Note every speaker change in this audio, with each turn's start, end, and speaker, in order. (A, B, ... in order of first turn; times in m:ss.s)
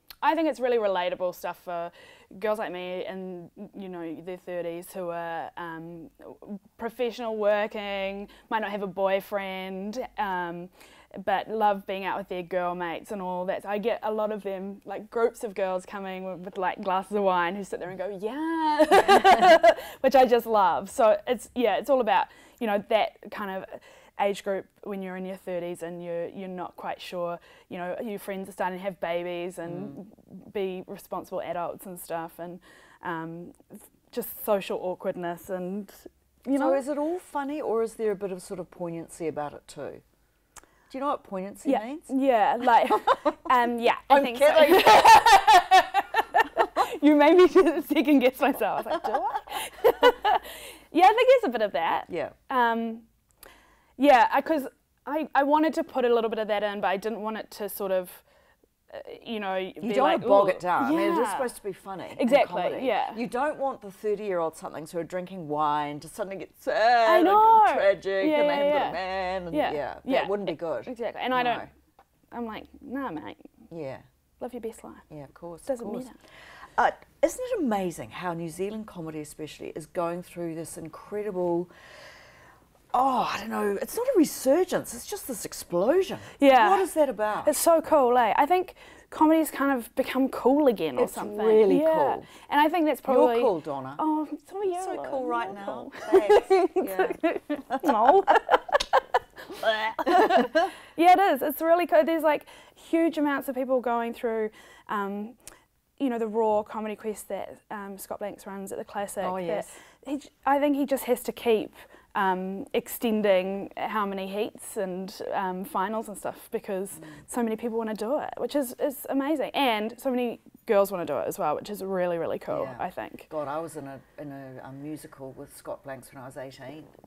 0:00.2-0:36.8 A
0:29.7-0:30.0 B
0:36.6-0:40.0 B
0:40.9-0:42.1 B
0:41.6-0:53.1 A
0:42.9-0:45.2 B
0:48.9-0:49.2 B
0:52.1-0:52.4 B
0:54.0-0:58.2 A
0:58.9-1:01.5 A
0:59.8-1:11.7 B
1:02.1-1:03.2 A
1:07.0-1:11.7 A
1:12.3-1:13.5 A
1:13.7-1:14.0 B
1:14.4-1:15.0 A
1:15.1-1:16.1 B
1:15.7-1:16.2 A
1:16.8-1:21.7 B
1:22.9-1:27.5 B
1:26.4-1:26.9 A
1:27.4-1:39.0 A
1:31.0-1:32.3 B
1:33.1-1:34.0 B
1:34.8-1:38.6 B
1:39.6-1:45.4 A
1:39.7-1:40.7 B
1:46.0-2:03.3 A
1:49.2-1:49.8 B
2:02.5-2:06.9 B